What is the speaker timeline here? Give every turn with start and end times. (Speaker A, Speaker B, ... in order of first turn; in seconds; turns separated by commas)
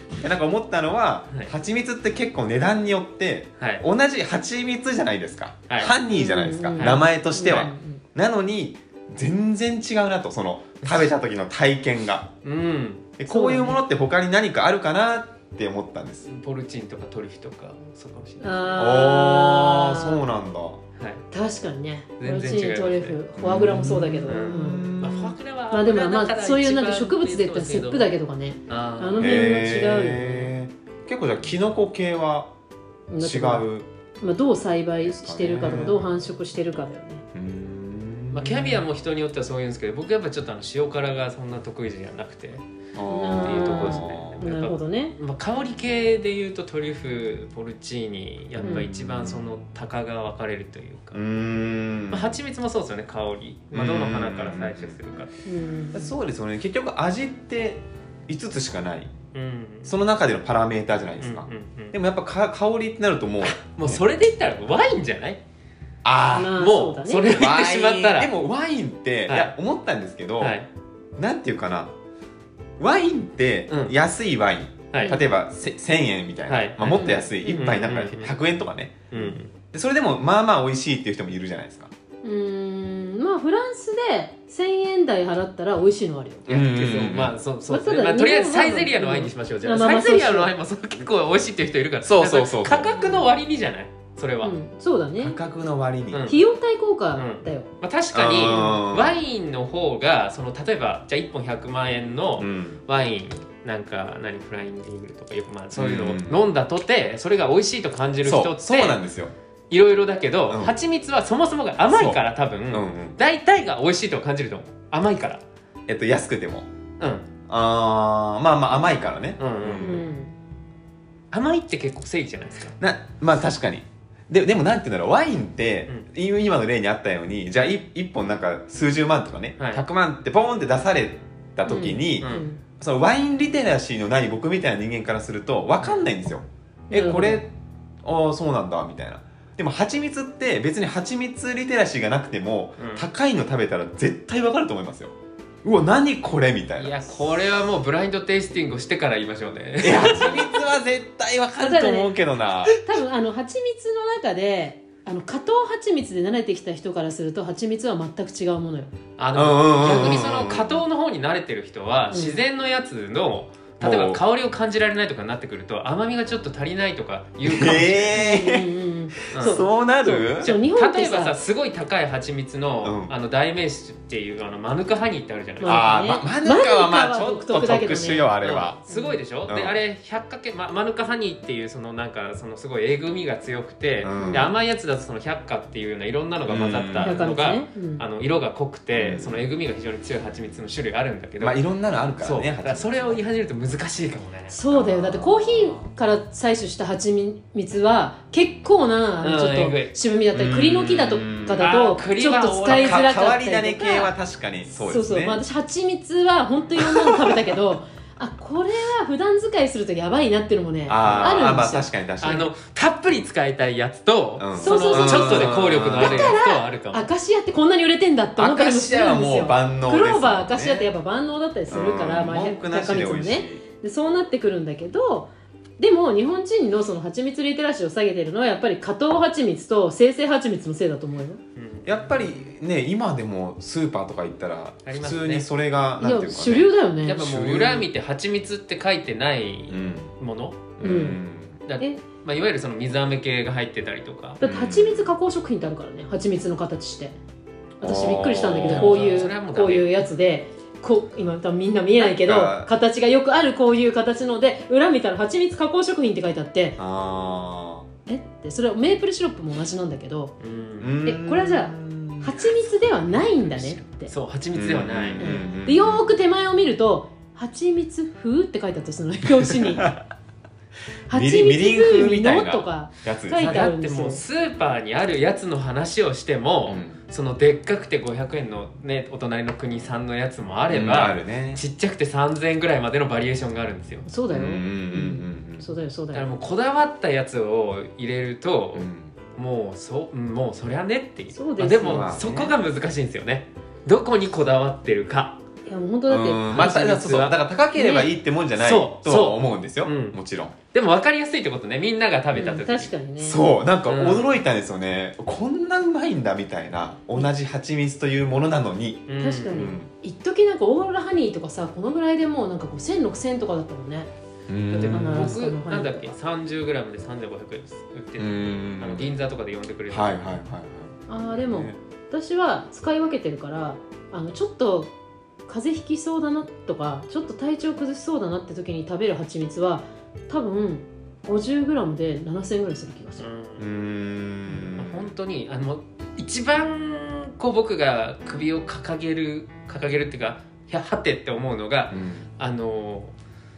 Speaker A: 0.2-12.3, Speaker B: 6.1-8.0, Speaker C: 6.8-7.7, Speaker C: 12.4-13.1, Speaker A: 13.2-16.3, Speaker B: 13.3-13.8, Speaker C: 16.2-18.7, Speaker B: 18.4-20.2, Speaker A: 18.8-20.8, Speaker C: 21.0-21.2, Speaker B: 21.3-25.0, Speaker C: 22.2-23.2, Speaker A: 23.4-25.4, Speaker C: 24.3-28.1, Speaker B: 25.7-30.5, Speaker C: 28.7-29.4, Speaker A: 29.2-32.5, Speaker B: 33.1-33.6, Speaker A: 33.2-33.9, Speaker B: 34.2-37.2, Speaker A: 35.0-36.0, Speaker A: 37.3-38.8, Speaker C: 38.3-42.6, Speaker A: 42.9-44.5, Speaker B: 43.1-45.1, Speaker C: 43.4-51.2, Speaker B: 48.6-48.9, Speaker A: 48.6-49.5, Speaker A: 51.1-52.4, Speaker C: 52.1-55.3, Speaker A: 53.7-55.0, Speaker B: 55.4-56.1, Speaker A: 55.9-59.1, Speaker C: 59.3-59.9, Speaker A: 59.9-64.0, Speaker C: 61.2-61.9, Speaker C: 63.4-65.4, Speaker A: 66.0-66.6, Speaker B: 66.3-67.3, Speaker C: 66.5-68.3, Speaker A: 67.3-70.6, Speaker C: 69.3-69.5, Speaker C: 70.4-70.7, Speaker A: 71.2-71.9, Speaker A: 72.8-79.0, Speaker C: 73.7-73.9, Speaker C: 74.9-75.2, Speaker C: 76.5-78.3, Speaker B: 76.8-78.0, Speaker C: 79.1-79.5, Speaker B: 79.1-79.4, Speaker A: 79.7-81.9, Speaker B: 82.2-86.5, Speaker C: 86.5-94.5, Speaker A: 86.5-87.3, Speaker B: 87.7-90.5, Speaker A: 92.0-93.3, Speaker B: 94.4-95.4, Speaker A: 95.2-96.3, Speaker C: 96.1-96.4, Speaker B: 96.3-97.7, Speaker C: 97.1-109.0, Speaker A: 98.1-99.2, Speaker B: 98.4-98.8, Speaker A: 102.4-102.8, Speaker A: 105.7-106.4, Speaker A: 108.2-109.3, Speaker C: 109.7-115.4, Speaker A: 110.5-110.8, Speaker A: 111.9-113.2, Speaker A: 115.9-116.7, Speaker C: 117.0-117.2, Speaker A: 117.5-120.1, Speaker C: 119.4-120.0, Speaker B: 119.8-120.3, Speaker C: 121.3-122.8, Speaker A: 122.8-137.5, Speaker C: 129.6-129.8, Speaker B: 131.7-132.6, Speaker C: 132.2-132.4, Speaker C: 135.8-136.1, Speaker B: 136.9-137.4, Speaker A: 138.0-147.0, Speaker C: 142.8-143.1, Speaker C: 146.8-150.5, Speaker A: 149.8-152.8, Speaker B: 151.6-152.2, Speaker B: 152.7-158.9, Speaker C: 159.2-168.2, Speaker A: 159.3-160.8, Speaker B: 162.1-162.4, Speaker A: 163.8-164.2, Speaker A: 167.4-168.7, Speaker B: 168.1-171.3, Speaker A: 169.2-170.5, Speaker C: 169.3-169.6, Speaker C: 170.4-175.8, Speaker A: 172.8-173.1, Speaker B: 175.6-178.3, Speaker A: 175.6-178.8, Speaker C: 178.4-191.6, Speaker B: 178.9-179.2, Speaker A: 179.5-179.8, Speaker A: 184.0-184.5, Speaker B: 184.1-184.5, Speaker A: 186.5-187.2, Speaker B: 187.0-188.0, Speaker A: 189.0-189.4, Speaker A: 191.4-193.2, Speaker C: 192.2-194.5, Speaker B: 194.5-204.1, Speaker A: 194.7-195.8, Speaker C: 199.2-199.9, Speaker A: 200.3-201.7, Speaker C: 201.6-203.1, Speaker A: 202.6-205.4, Speaker B: 204.8-211.9, Speaker A: 206.9-207.4, Speaker A: 210.9-212.5, Speaker C: 211.0-211.5, Speaker C: 212.2-217.1, Speaker A: 214.4-216.4, Speaker B: 214.6-231.4, Speaker A: 218.4-220.9, Speaker A: 221.7-223.6, Speaker C: 231.6-232.3, Speaker A: 231.8-237.9, Speaker C: 234.8-235.4, Speaker B: 236.0-237.2, Speaker C: 237.1-240.9, Speaker A: 239.7-240.1, Speaker A: 240.8-241.6, Speaker B: 240.8-241.2, Speaker C: 241.7-244.4, Speaker B: 244.4-247.1, Speaker A: 244.4-245.1, Speaker B: 247.8-256.8, Speaker A: 247.8-249.2, Speaker C: 248.7-250.0, Speaker A: 251.9-252.7, Speaker A: 256.8-257.9, Speaker B: 258.1-260.3, Speaker C: 260.4-261.0, Speaker A: 260.8-262.4, Speaker B: 261.0-264.1, Speaker C: 263.4-265.4, Speaker A: 264.5-266.1, Speaker B: 265.2-269.9, Speaker A: 269.4-270.0, Speaker A: 271.1-273.7, Speaker B: 271.1-274.2, Speaker C: 273.4-284.1, Speaker A: 276.7-277.0, Speaker A: 280.7-281.6, Speaker B: 284.1-286.3, Speaker A: 284.3-285.7, Speaker C: 286.1-295.4, Speaker A: 288.7-289.1, Speaker B: 291.3-292.1, Speaker A: 291.8-292.6, Speaker B: 295.6-296.8, Speaker A: 296.1-300.5, Speaker C: 296.5-300.2, Speaker B: 297.8-298.1, Speaker C: 300.7-302.9, Speaker B: 302.3-303.4, Speaker A: 303.2-309.9, Speaker C: 303.9-304.4, Speaker C: 309.1-309.7, Speaker B: 309.2-314.1, Speaker A: 314.5-315.4, Speaker C: 314.7-320.2, Speaker B: 314.9-316.1, Speaker A: 318.2-319.1, Speaker A: 319.9-321.8, Speaker B: 321.1-324.9, Speaker B: 325.5-333.2, Speaker C: 333.2-333.6, Speaker A: 333.6-335.1, Speaker C: 334.7-343.1, Speaker A: 341.9-342.2